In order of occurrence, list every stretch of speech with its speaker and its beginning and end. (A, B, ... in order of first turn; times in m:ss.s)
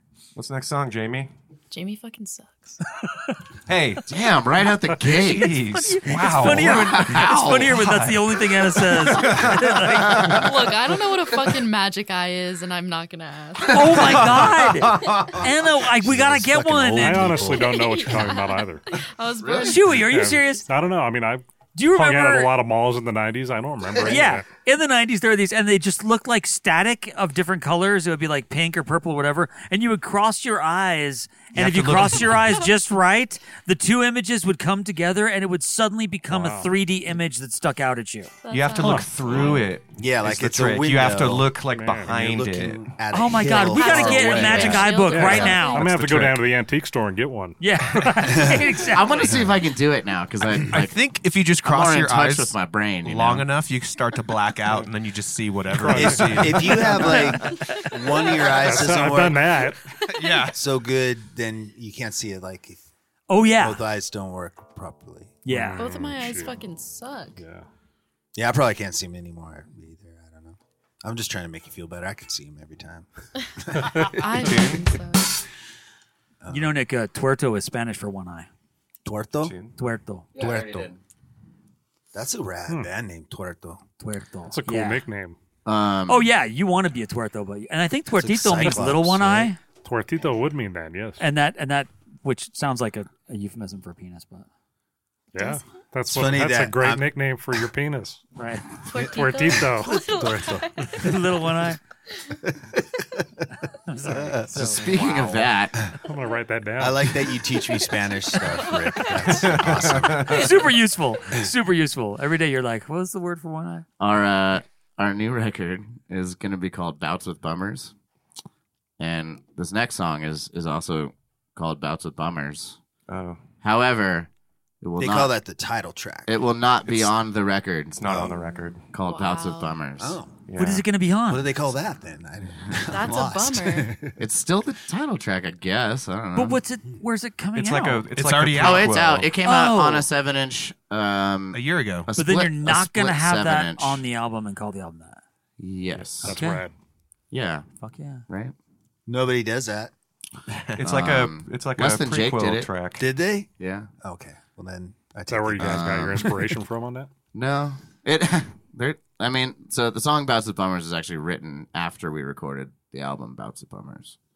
0:00.3-0:01.3 A
0:01.7-0:02.8 B
0:03.7-0:04.0 A
0:04.1-0:05.6 C
0:05.0-0:10.3 A
0:05.5-0:10.4 D
0:06.4-0:07.8 C
0:09.8-0:10.5 C
0:10.2-0:14.1 B
0:13.6-0:17.5 D
0:14.0-0:15.3 A
0:15.8-0:17.7 E
0:16.9-0:18.8 F
0:17.6-0:19.9 B
0:19.4-0:19.8 C
0:19.6-0:20.7 D
0:19.9-0:24.5 F
0:21.7-0:22.5 D
0:24.0-0:38.3 D
0:31.5-0:32.6 A
0:36.3-0:36.7 F
0:38.4-0:39.6 B
0:38.5-0:42.9 A
0:38.8-0:39.1 F
0:40.0-0:44.8 E
0:41.7-0:42.1 F
0:43.1-0:45.9 D
0:43.6-0:45.9 B
0:45.0-0:48.3 F
0:45.8-0:46.4 A
0:47.6-0:49.4 D
0:48.8-0:51.0 C
0:50.7-0:56.9 G
0:51.6-0:53.5 C
0:55.7-0:57.1 F
0:55.9-0:59.5 E
0:57.0-0:57.6 D
0:58.6-0:59.8 F
1:00.1-1:00.6 G
1:00.5-1:02.8 E
1:03.3-1:03.8 D
1:03.6-1:05.4 E
1:05.4-1:05.9 D
1:05.5-1:06.6 F
1:05.8-1:07.4 B
1:07.4-1:07.6 F
1:08.4-1:13.1 E
1:13.6-1:14.1 E
1:14.1-1:15.4 B
1:14.3-1:14.9 A
1:16.4-1:16.7 E
1:16.5-1:18.5 D
1:19.0-1:19.5 E
1:19.4-1:19.7 A
1:19.8-1:20.2 D
1:20.3-1:20.9 E
1:20.3-1:21.0 C
1:22.1-1:23.8 E
1:24.0-1:25.0 D
1:24.5-1:25.4 F
1:25.6-1:26.3 C
1:26.1-1:29.6 D
1:28.1-1:29.5 E
1:29.8-1:31.2 F
1:31.2-1:34.4 D
1:35.3-1:38.2 F
1:36.1-1:37.1 E
1:38.4-1:38.7 D
1:38.9-1:41.2 B
1:38.9-1:40.9 F
1:41.0-1:41.8 D
1:43.9-1:45.4 D
1:44.5-1:45.9 C
1:46.0-1:47.4 F
1:46.8-1:50.5 E
1:48.5-1:49.4 B
1:49.3-1:50.5 A
1:50.3-1:53.8 D
1:54.0-1:57.9 C
1:59.0-2:02.8 C
2:03.1-2:03.4 A
2:03.6-2:04.3 C
2:04.8-2:05.3 C
2:05.0-2:06.3 E
2:06.3-2:08.2 C
2:07.9-2:08.9 A
2:08.1-2:08.3 E
2:08.9-2:10.2 C
2:09.0-2:09.8 B
2:10.0-2:10.3 E
2:10.5-2:10.8 A
2:10.6-2:11.5 D
2:11.3-2:14.1 E
2:12.9-2:14.0 B
2:14.2-2:16.6 C
2:16.3-2:18.1 D
2:17.5-2:19.3 A
2:18.1-2:19.0 G
2:18.5-2:24.0 C
2:19.4-2:20.0 D
2:21.5-2:22.1 G
2:22.1-2:25.2 D
2:25.6-2:26.4 C
2:26.2-2:26.7 F
2:26.2-2:26.7 D
2:27.3-2:27.7 C
2:27.8-2:28.2 D
2:28.3-2:28.5 C
2:29.1-2:29.9 E
2:30.8-2:33.0 A
2:30.8-2:32.7 C
2:33.0-2:33.5 E
2:33.6-2:33.9 C
2:34.0-2:36.1 E
2:35.3-2:37.1 F
2:35.6-2:36.5 C
2:37.3-2:44.2 C